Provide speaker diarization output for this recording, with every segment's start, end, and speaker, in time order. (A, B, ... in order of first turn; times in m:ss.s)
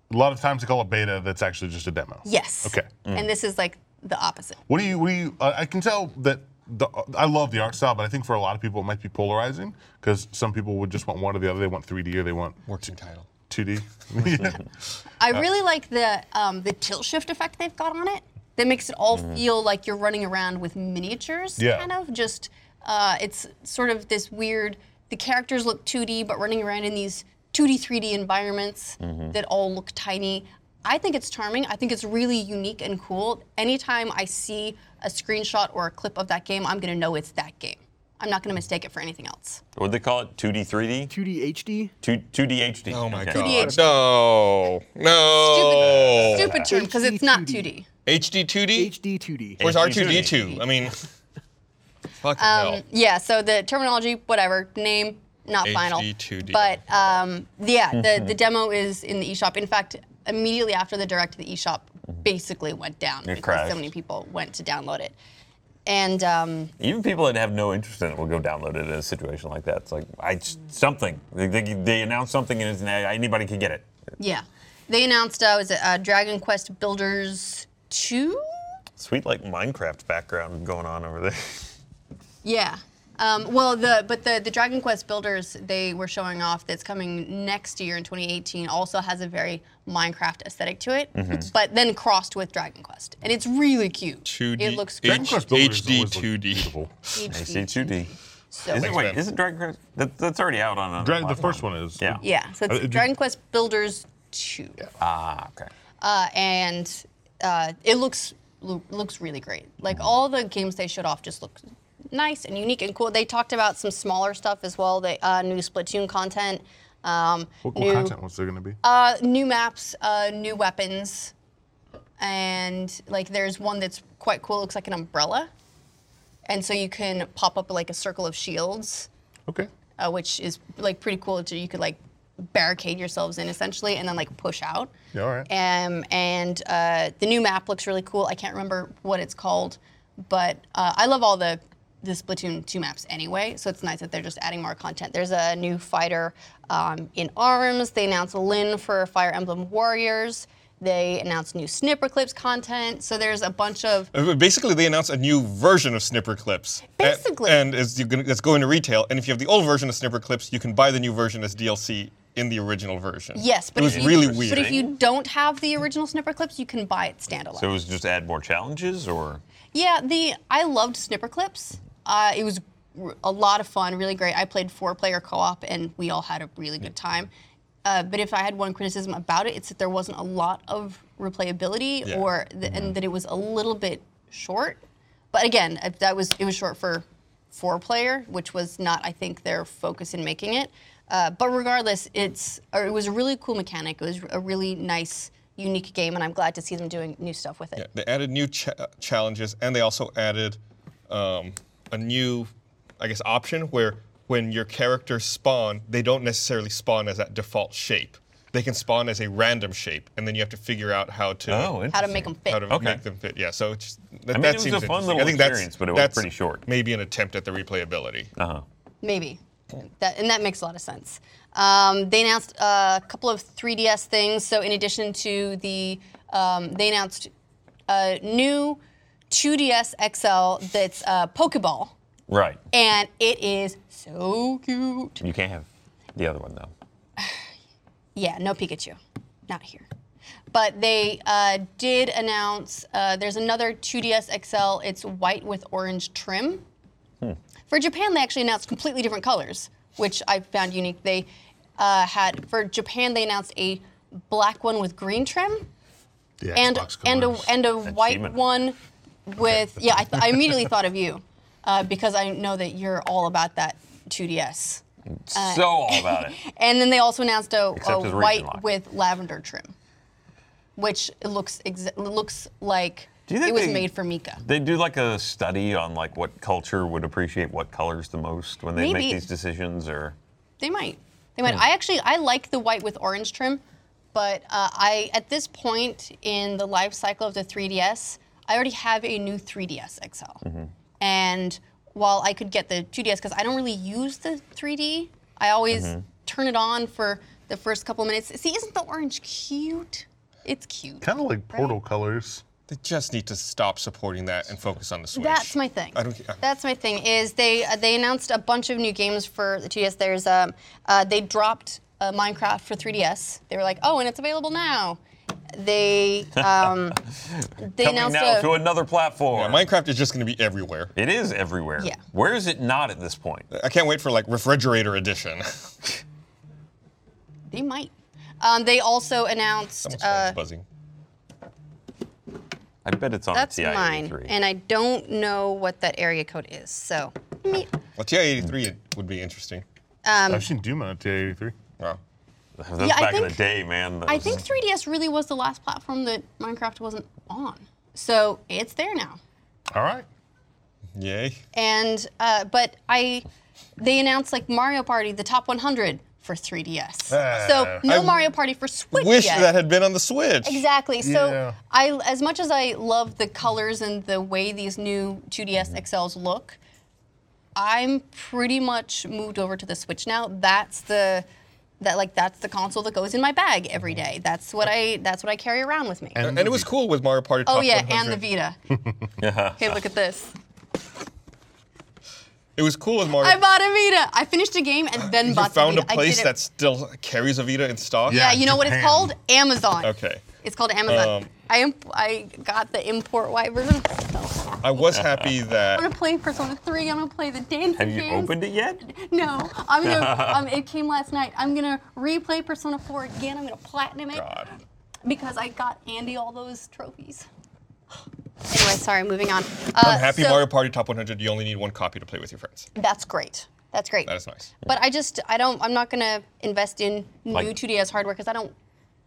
0:00.1-0:02.9 A
0:02.2-0:04.6 B
0:04.7-0:12.6 A
0:12.7-0:13.3 C
0:13.5-0:14.6 A
0:15.2-0:39.6 B
0:21.6-0:21.9 A
0:29.0-0:29.3 D
0:39.8-0:41.1 D
0:41.1-0:41.9 E
0:42.0-0:43.7 D
0:42.9-0:46.5 C
0:43.3-0:43.9 B
0:43.4-0:43.9 E
0:45.4-0:47.9 B
0:45.8-0:46.7 D
0:46.4-0:47.7 E
0:48.0-0:48.9 C
0:48.7-0:49.6 E
0:49.6-0:50.6 D
0:49.6-0:50.9 C
0:52.2-0:52.8 C
0:52.4-1:05.1 B
0:55.6-0:56.8 C
0:58.0-0:58.3 D
1:03.2-1:03.9 D
1:05.8-1:06.7 B
1:06.8-1:13.9 D
1:14.2-1:18.8 B
1:19.0-1:21.7 D
1:22.4-1:35.4 B
1:31.1-1:31.5 D
1:34.2-1:36.7 C
1:35.0-1:36.9 A
1:37.1-1:39.0 B
1:37.3-1:38.1 D
1:38.7-1:42.2 D
1:38.7-1:39.2 C
1:41.0-1:43.1 A
1:42.2-1:44.9 B
1:45.0-1:45.7 D
1:46.0-1:58.1 B
1:57.6-1:58.8 A
1:58.8-2:01.3 B
2:02.2-2:05.5 B
2:06.5-2:09.1 B
2:10.0-2:14.9 B
2:15.1-2:15.5 A
2:15.5-2:34.1 B
2:34.1-2:44.8 C
2:37.0-2:37.6 B
2:43.3-2:47.7 B
2:43.8-2:44.9 D
2:47.6-2:49.4 D
2:49.7-2:57.3 B
2:57.8-3:04.8 B
3:05.3-3:17.8 B
3:17.8-3:20.6 C
3:21.1-3:38.3 C
3:31.5-3:33.0 D
3:31.9-3:32.8 B
3:34.3-3:36.6 D
3:38.4-3:38.6 D
3:39.0-3:47.3 B
3:47.9-3:51.9 B
3:52.3-3:52.6 D
3:52.7-3:55.2 B
3:55.2-3:56.7 D
3:58.2-3:59.9 B
4:00.5-4:06.6 B
4:07.7-4:11.3 B
4:11.8-4:15.7 B
4:16.4-4:17.5 A
4:16.5-4:29.7 B
4:17.8-4:18.4 D
4:25.3-4:26.4 D
4:27.8-4:28.6 D
4:30.8-4:34.4 B
4:33.3-4:33.9 D
4:34.4-4:40.2 D
4:38.8-4:39.2 B
4:40.6-4:43.6 B
4:44.1-4:50.4 B
4:50.4-4:50.7 D
4:51.0-5:01.8 B
4:55.7-4:56.0 D
5:01.0-5:02.4 A
5:02.7-5:06.4 C
5:05.1-5:15.0 B
5:15.5-5:17.0 B
5:16.4-5:16.7 D
5:17.3-5:19.7 D
5:17.6-5:18.5 B
5:19.3-5:20.9 C
5:21.0-5:23.5 D
5:23.5-5:26.0 C
5:27.5-5:30.4 B
5:29.8-5:30.6 C
5:32.8-5:34.3 D
5:33.3-5:37.7 B
5:38.0-5:39.6 C
5:40.0-5:40.5 B
5:40.3-5:41.6 A
5:42.6-5:44.4 D
5:42.8-5:43.4 B
5:44.0-5:49.2 B
5:49.7-5:50.1 A
5:51.0-5:51.4 C
5:51.5-5:53.2 B
5:53.8-5:59.5 B
5:57.1-5:57.9 A
5:57.8-5:58.2 C
5:58.9-6:00.6 C
6:00.4-6:06.6 B
6:01.0-6:01.6 A
6:07.6-6:11.2 B
6:11.8-6:16.3 B
6:16.2-6:16.7 A
6:16.2-6:18.2 C
6:17.4-6:18.6 B
6:19.2-6:19.8 D
6:19.6-6:20.3 B
6:22.6-6:23.4 C
6:23.2-6:26.3 B
6:25.1-6:28.3 C
6:28.1-6:29.1 A
6:28.1-6:34.6 B
6:29.8-6:30.2 C
6:30.9-6:31.3 C
6:34.6-6:35.9 C
6:34.9-6:35.3 D
6:35.7-6:44.3 B
6:37.8-6:38.8 D
6:39.8-6:40.4 D
6:44.1-6:44.5 C
6:45.0-6:47.3 B
6:48.5-6:50.4 B
6:49.8-6:52.7 C
6:52.8-6:58.5 B
6:54.1-6:54.5 C